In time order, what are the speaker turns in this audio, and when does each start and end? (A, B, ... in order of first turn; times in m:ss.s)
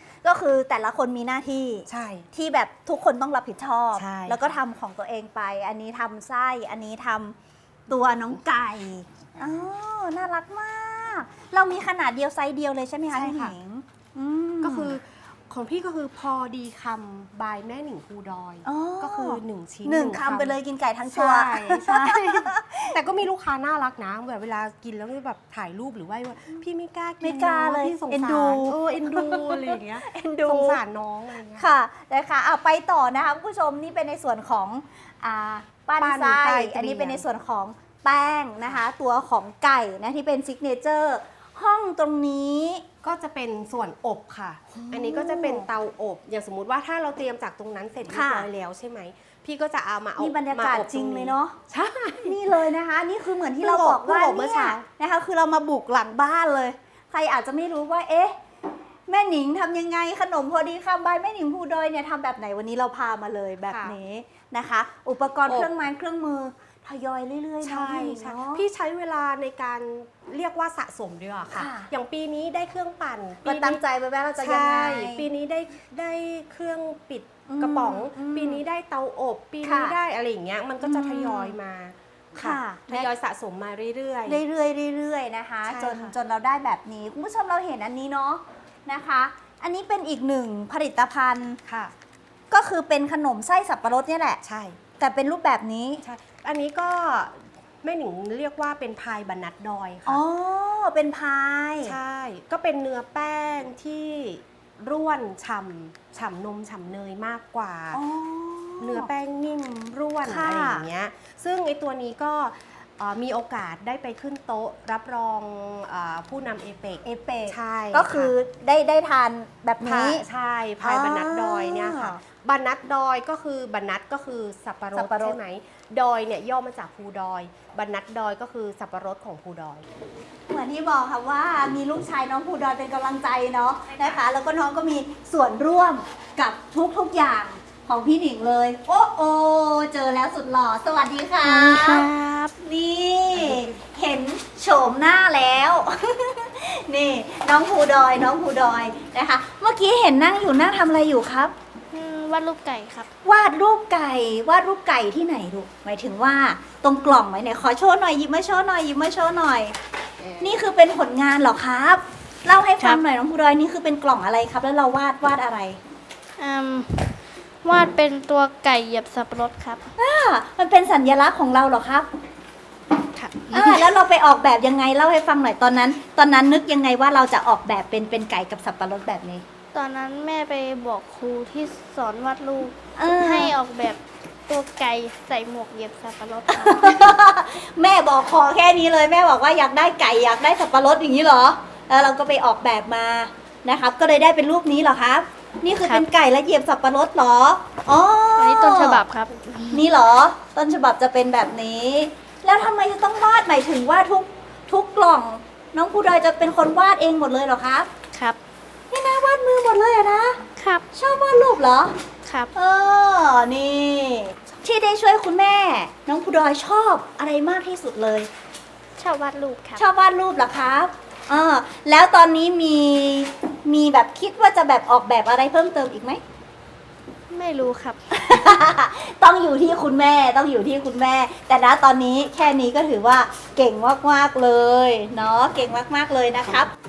0:00.2-0:07.4 A
0:01.9-0:02.3 B
0:04.0-0:04.6 B
0:07.9-0:15.0 A
0:13.1-0:13.6 B
0:14.6-0:31.6 B
0:18.6-0:23.0 A
0:27.2-0:30.8 A
0:31.6-0:42.8 A
0:36.0-0:37.2 B
0:43.0-0:52.4 B
0:44.7-0:45.7 A
0:48.1-0:48.5 A
0:50.2-0:51.6 A
0:52.2-0:58.4 A
0:53.6-0:54.9 B
0:59.1-1:08.6 A
1:03.7-1:04.0 B
1:07.6-1:13.8 B
1:11.6-1:11.9 A
1:13.4-1:15.3 A
1:14.4-1:24.4 B
1:17.5-1:18.6 A
1:19.6-1:20.0 A
1:20.8-1:21.6 A
1:22.4-1:23.1 A
1:24.3-1:31.6 A
1:25.6-1:26.2 B
1:31.7-1:31.9 B
1:32.5-1:34.4 A
1:34.4-1:34.8 B
1:35.0-1:36.0 A
1:36.0-1:40.2 B
1:40.1-1:42.0 A
1:41.8-1:48.0 B
1:47.9-1:49.1 A
1:48.8-1:58.3 B
1:50.2-1:50.9 A
1:57.0-2:00.2 A
1:59.8-2:09.8 B
2:00.8-2:02.2 A
2:05.0-2:05.4 A
2:10.5-2:22.1 A
2:21.4-2:22.5 C
2:22.6-2:31.5 A
2:23.4-2:23.7 B
2:31.9-2:33.1 C
2:33.2-2:39.8 A
2:40.4-2:45.8 A
2:46.4-2:49.9 C
2:50.0-2:52.1 A
2:53.1-2:54.0 C
2:53.5-2:59.4 A
2:59.7-3:07.2 C
3:03.0-3:03.6 A
3:06.5-3:19.0 A
3:18.4-3:19.8 C
3:19.7-3:27.9 A
3:28.9-3:30.4 A
3:30.6-3:30.8 C
3:30.9-3:31.9 A
3:32.3-3:32.5 C
3:32.6-3:38.3 A
3:39.0-3:39.8 C
3:39.8-3:46.2 A
3:47.3-3:48.6 C
3:48.1-3:56.7 A